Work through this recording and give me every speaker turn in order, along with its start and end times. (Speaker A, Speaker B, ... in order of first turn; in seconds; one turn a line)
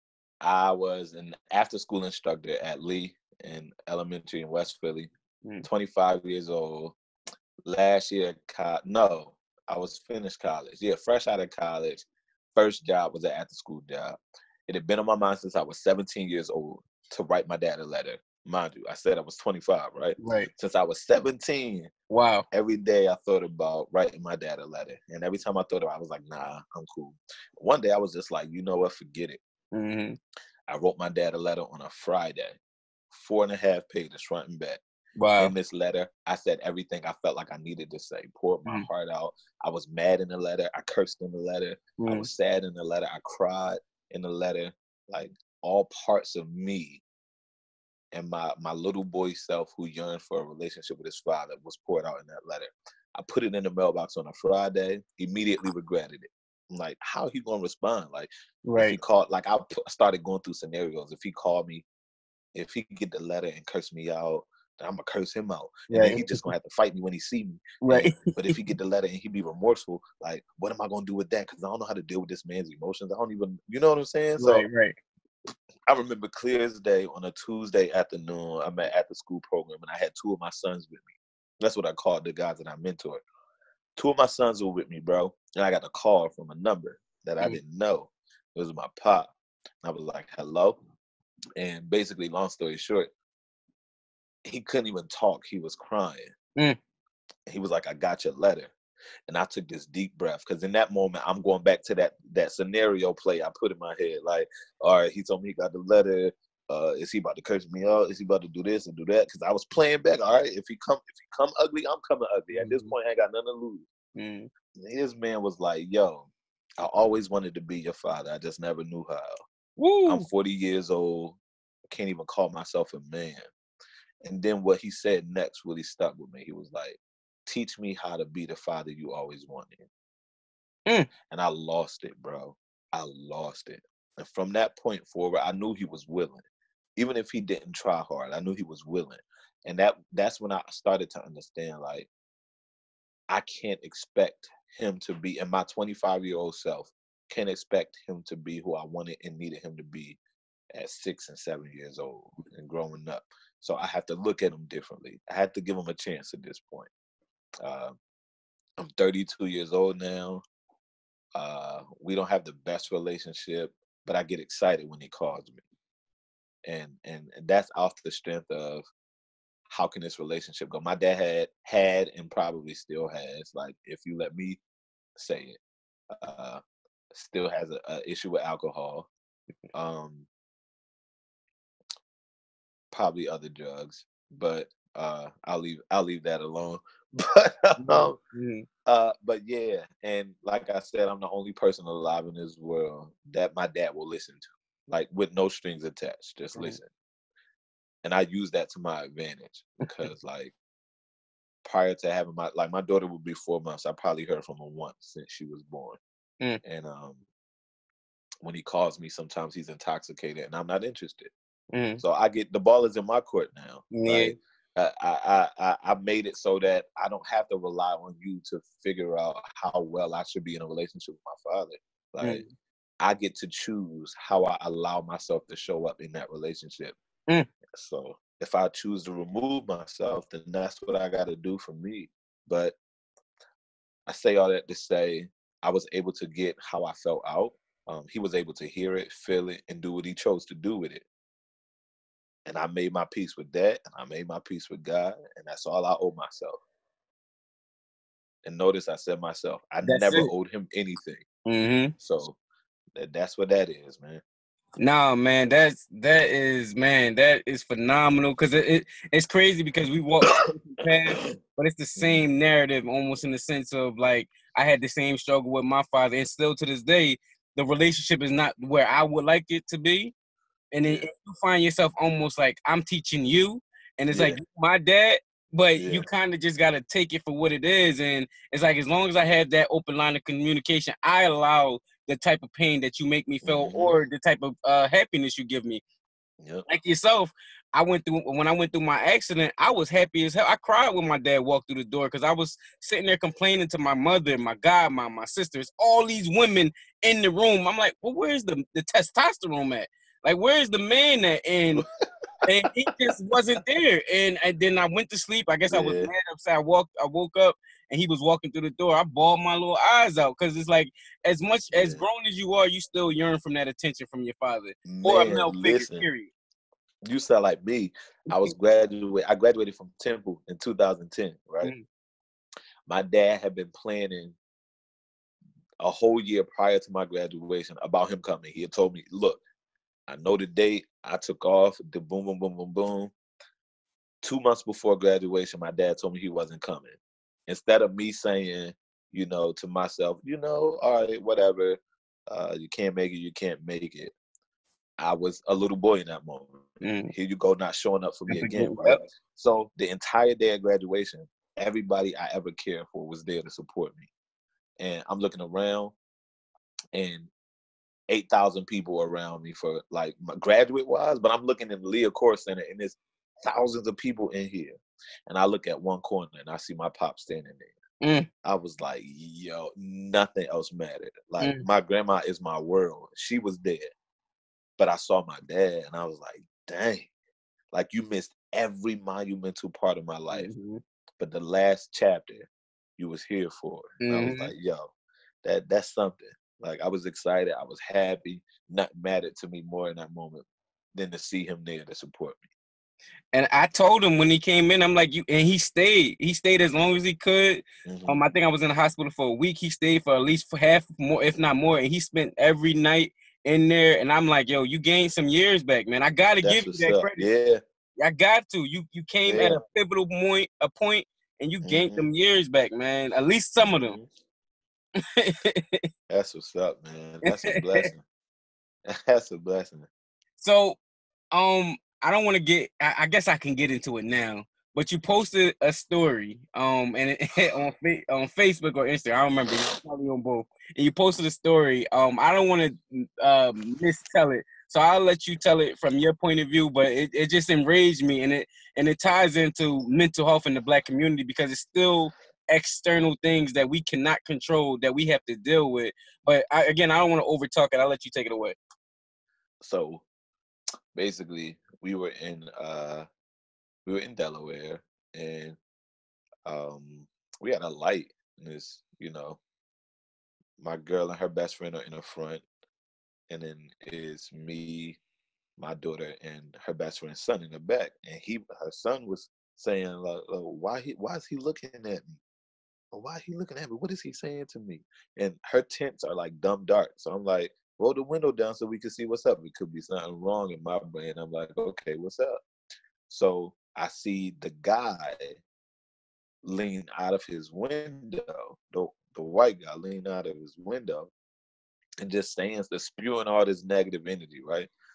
Speaker A: 0.4-5.1
Speaker A: 5.6-7.0
Speaker A: 7.7-21.9
Speaker B: 20.2-20.5
Speaker B: 22.1-22.4
Speaker A: 22.5-29.4
Speaker B: 29.7-30.2
Speaker A: 30.7-32.6
Speaker A: 33.1-34.8
Speaker B: 35.2-35.5
Speaker A: 35.4-47.0
Speaker B: 42.0-42.3
Speaker A: 48.1-61.9
Speaker B: 58.6-59.0
Speaker A: 62.5-74.7
Speaker B: 65.9-66.5
Speaker B: 67.8-68.5
Speaker B: 74.4-75.0
Speaker A: 75.9-83.2
Speaker A: 84.0-89.3
Speaker A: 89.8-90.8
Speaker A: 91.6-93.1
Speaker A: 94.4-96.3
Speaker A: 97.5-98.7
Speaker A: 99.3-113.8
Speaker B: 112.5-112.9
Speaker B: 114.2-114.5
Speaker A: 114.7-119.3
Speaker B: 119.8-120.2
Speaker A: 120.0-121.4
Speaker A: 121.9-123.5
Speaker A: 124.2-129.9
Speaker B: 130.9-131.1
Speaker A: 131.3-136.4
Speaker A: 137.0-142.1
Speaker A: 143.3-150.2
Speaker A: 150.7-156.9
Speaker A: 157.6-158.0
Speaker A: 158.8-160.4
Speaker A: 161.3-165.6
Speaker A: 166.7-168.9
Speaker A: 169.7-174.6
Speaker A: 175.2-175.6
Speaker A: 176.1-176.6
Speaker A: 177.1-179.1
Speaker A: 179.7-180.3
Speaker A: 182.9-188.2
Speaker B: 187.8-188.7
Speaker A: 188.8-196.9
Speaker A: 198.0-200.5
Speaker A: 201.6-206.0
Speaker A: 206.6-207.2
Speaker A: 208.4-211.3
Speaker B: 211.7-212.0
Speaker A: 212.0-222.4
Speaker B: 213.9-214.3
Speaker B: 222.2-222.5
Speaker A: 223.0-226.9
Speaker A: 227.8-232.8
Speaker A: 234.1-241.0
Speaker A: 242.4-246.6
Speaker A: 248.4-251.2
Speaker B: 249.8-250.3
Speaker B: 251.4-251.9
Speaker A: 252.0-252.4
Speaker A: 252.9-254.2
Speaker B: 254.8-270.1
Speaker A: 262.0-262.2
Speaker B: 270.7-285.8
Speaker A: 274.1-274.4
Speaker A: 275.8-276.1
Speaker A: 283.4-284.0
Speaker A: 286.4-286.6
Speaker B: 286.7-301.9
Speaker B: 302.4-316.3
Speaker A: 305.7-306.1
Speaker A: 311.7-312.0
Speaker A: 314.9-316.1
Speaker A: 317.0-321.7
Speaker A: 322.9-324.4
Speaker A: 325.8-329.4
Speaker A: 330.1-333.1
Speaker A: 334.2-344.1
Speaker A: 345.0-354.1
Speaker B: 346.8-347.1
Speaker B: 348.3-349.0
Speaker A: 354.8-355.9
Speaker A: 356.9-357.3
Speaker A: 358.1-367.8
Speaker B: 368.0-368.3
Speaker A: 368.4-373.9
Speaker B: 371.4-371.6
Speaker A: 374.8-377.1
Speaker A: 377.7-380.5
Speaker B: 380.3-380.8
Speaker A: 381.2-384.9
Speaker B: 384.0-384.5
Speaker A: 385.4-392.4
Speaker B: 393.3-407.2
Speaker A: 397.9-398.2
Speaker A: 406.4-407.6
Speaker B: 408.0-414.0
Speaker A: 409.3-409.6
Speaker A: 411.6-412.1
Speaker A: 413.6-414.1
Speaker B: 415.0-415.8
Speaker A: 416.1-418.0
Speaker B: 417.3-417.9
Speaker A: 418.9-419.9
Speaker B: 420.4-420.8
Speaker B: 421.3-448.6
Speaker A: 449.6-450.0
Speaker A: 450.9-453.1
Speaker A: 453.9-455.6
Speaker A: 456.4-459.4
Speaker A: 460.6-462.4
Speaker A: 463.3-465.0
Speaker A: 465.6-472.2
Speaker A: 472.9-482.4
Speaker A: 483.1-485.4
Speaker A: 486.4-491.1
Speaker A: 492.0-494.7